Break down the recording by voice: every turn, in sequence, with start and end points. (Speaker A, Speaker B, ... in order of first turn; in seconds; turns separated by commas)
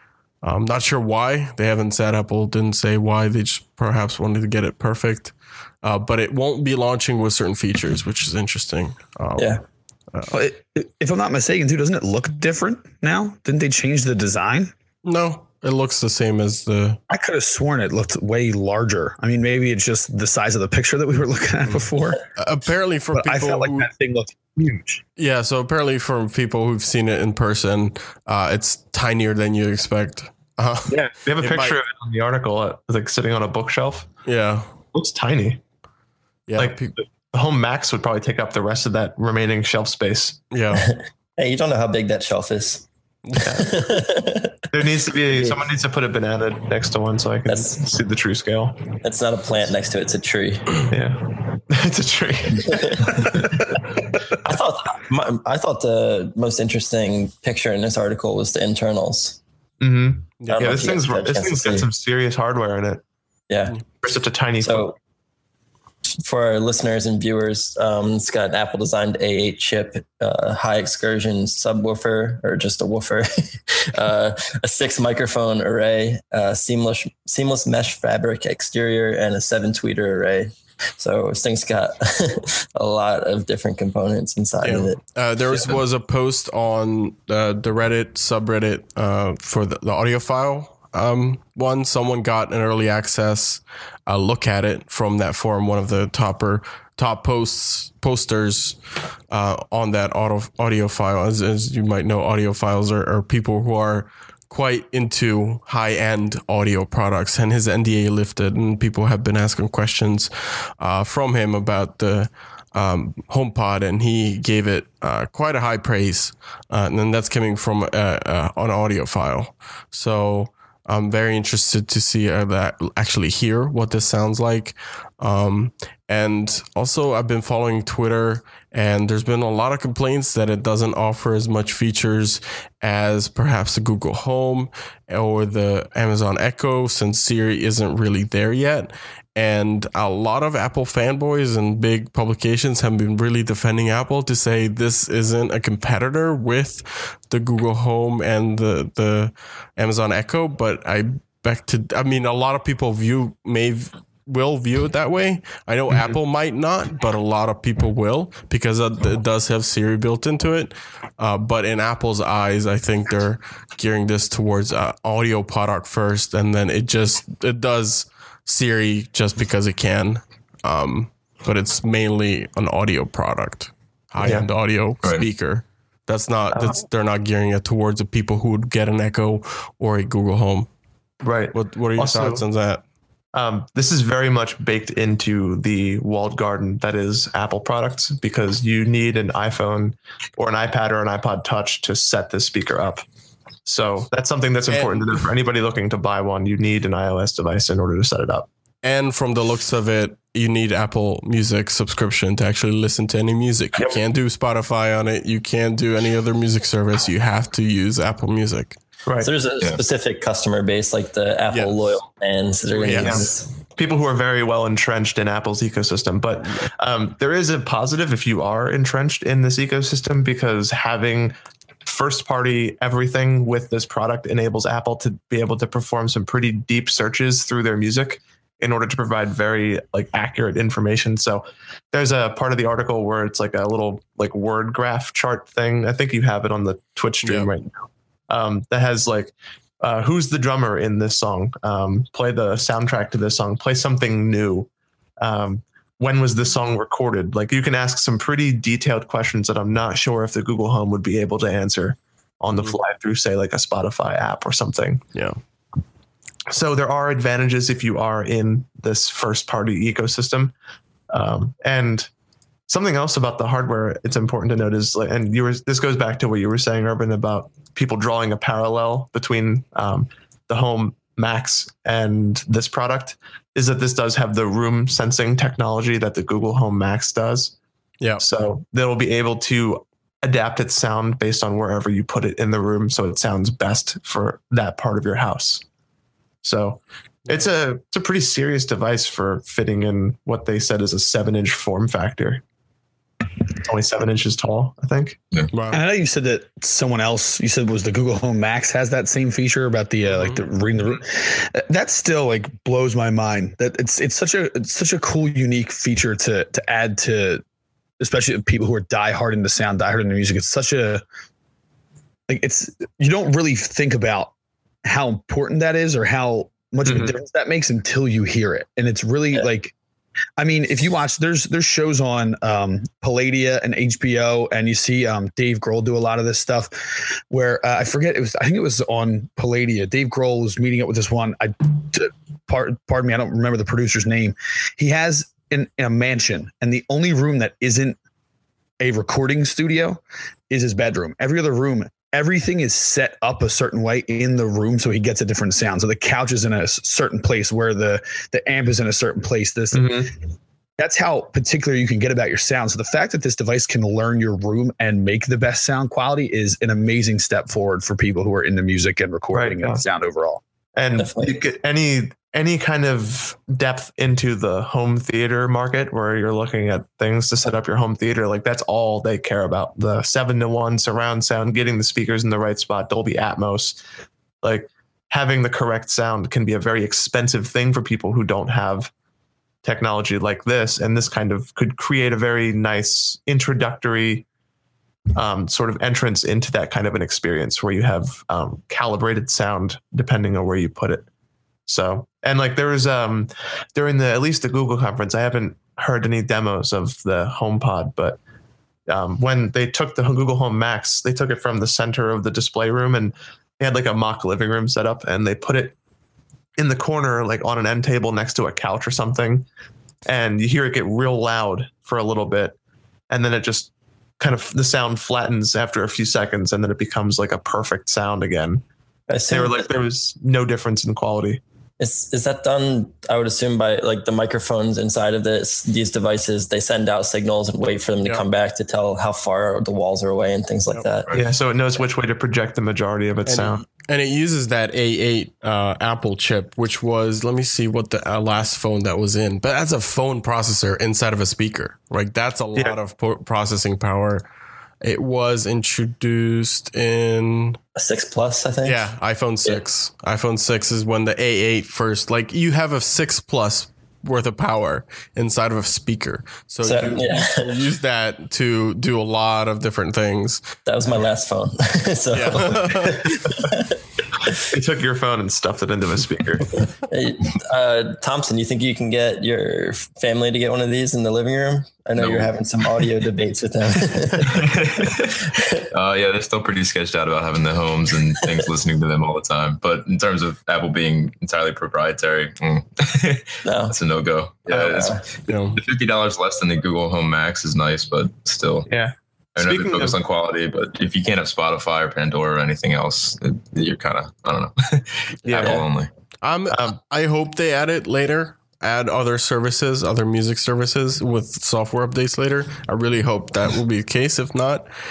Speaker A: 0.4-9.5, Speaker A: 10.1-10.4, Speaker B: 10.3-14.7, Speaker A: 15.0-17.0, Speaker B: 17.1-22.2, Speaker A: 22.4-23.9, Speaker B: 23.1-25.0, Speaker A: 25.2-31.8, Speaker C: 30.9-34.1, Speaker A: 34.2-34.7, Speaker C: 34.9-35.6, Speaker A: 36.5-36.9, Speaker C: 36.5-40.4, Speaker A: 40.5-40.9, Speaker D: 40.8-42.9, Speaker D: 43.5-44.6, Speaker C: 44.7-48.9, Speaker D: 45.3-45.6, Speaker D: 47.5-47.8, Speaker D: 49.0-50.8, Speaker C: 50.9-53.6, Speaker D: 52.6-53.4, Speaker D: 54.4-59.4, Speaker C: 59.8-63.0, Speaker A: 60.4-60.7, Speaker D: 60.5-61.9, Speaker D: 63.5-63.8, Speaker C: 64.0-64.9, Speaker D: 64.6-65.0, Speaker D: 66.2-85.0, Speaker A: 84.6-98.8, Speaker A: 99.3-180.7, Speaker C: 155.9-156.2, Speaker C: 174.2-174.5, Speaker C: 176.5-176.8, Speaker C: 181.2-182.4, Speaker A: 181.5-182.8, Speaker C: 183.3-193.0, Speaker C: 193.6-198.5, Speaker A: 194.7-195.1, Speaker A: 198.8-208.8, Speaker D: 209.2-213.5, Speaker A: 211.5-212.0, Speaker A: 212.7-213.2, Speaker C: 213.0-237.7, Speaker A: 237.2-237.5, Speaker C: 238.3-244.7, Speaker C: 245.2-255.0, Speaker C: 256.5-260.5, Speaker C: 261.1-262.1, Speaker C: 262.7-277.5, Speaker C: 278.2-285.6, Speaker C: 286.4-292.4, Speaker C: 293.6-295.2, Speaker A: 295.5-295.8, Speaker B: 295.7-307.4, Speaker A: 300.0-300.4, Speaker B: 308.0-311.0, Speaker B: 312.3-314.3, Speaker B: 314.9-319.7, Speaker C: 316.8-317.1, Speaker B: 320.4-326.7, Speaker B: 327.3-338.0, Speaker B: 338.8-350.0, Speaker C: 349.7-350.1, Speaker B: 350.8-360.4, Speaker C: 359.3-359.8, Speaker C: 360.8-373.8, Speaker D: 361.0-361.3, Speaker C: 374.4-378.9, Speaker C: 379.6-384.2, Speaker C: 385.1-391.1, Speaker C: 391.7-398.2, Speaker C: 398.9-405.7, Speaker C: 406.6-409.5, Speaker C: 410.1-412.6, Speaker C: 413.1-418.6, Speaker D: 419.1-419.7, Speaker C: 419.3-421.4, Speaker D: 421.8-431.1, Speaker C: 431.1-433.6, Speaker A: 433.2-444.2, Speaker A: 444.8-447.6, Speaker D: 447.8-448.9, Speaker A: 448.6-460.5, Speaker D: 456.6-457.5, Speaker D: 460.6-464.4, Speaker A: 462.1-463.0, Speaker C: 464.5-466.5, Speaker D: 466.9-474.5, Speaker E: 471.9-472.3, Speaker E: 474.4-475.1, Speaker E: 475.7-488.7, Speaker D: 483.4-483.7, Speaker D: 484.5-485.0, Speaker A: 485.3-485.6, Speaker C: 488.7-490.0, Speaker E: 489.4-495.9, Speaker D: 495.2-495.5, Speaker C: 495.2-495.6, Speaker A: 496.2-504.7